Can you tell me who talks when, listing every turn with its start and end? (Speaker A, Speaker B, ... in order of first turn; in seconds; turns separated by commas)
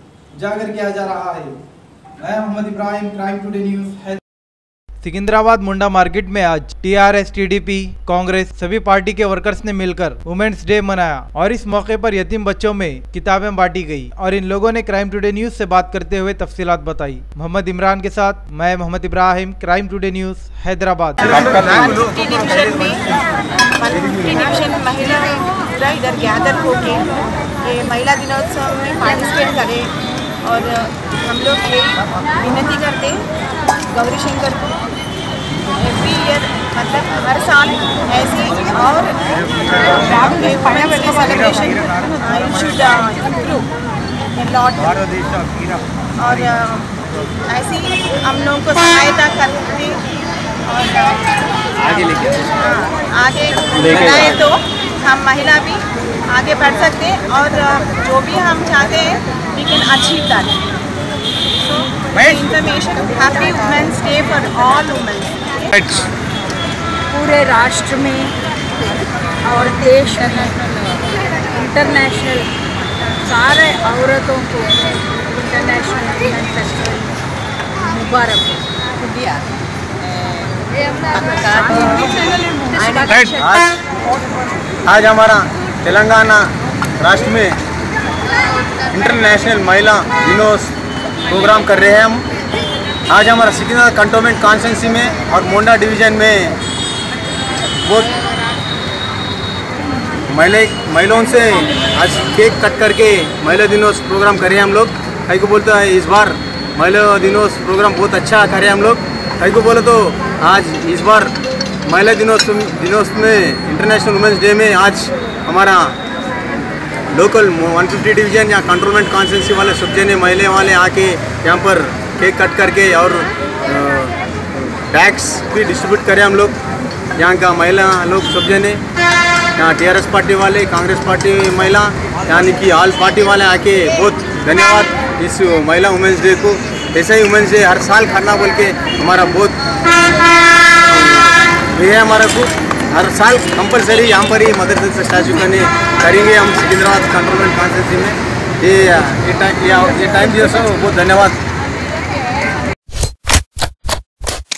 Speaker A: 0.4-1.6, Speaker A: 2.2-4.2, Speaker A: 5.0-21.8, Speaker B: 21.3-23.0, Speaker C: 21.4-29.9, Speaker C: 30.4-33.3, Speaker C: 33.9-34.8, Speaker C: 35.7-43.6, Speaker C: 44.3-45.2, Speaker C: 46.2-50.0, Speaker C: 50.6-60.6, Speaker B: 53.8-54.3, Speaker C: 61.6-65.4, Speaker D: 67.1-68.4, Speaker D: 69.4-70.8, Speaker D: 71.4-77.2, Speaker D: 77.8-79.4, Speaker D: 81.0-83.4, Speaker B: 83.1-83.8, Speaker B: 84.8-87.6, Speaker B: 88.8-90.7, Speaker B: 91.3-92.2, Speaker B: 93.1-96.6, Speaker B: 97.8-98.2, Speaker B: 100.3-111.3, Speaker B: 111.9-116.0, Speaker B: 117.1-126.6, Speaker B: 127.2-128.8, Speaker B: 129.6-139.6, Speaker B: 140.8-151.4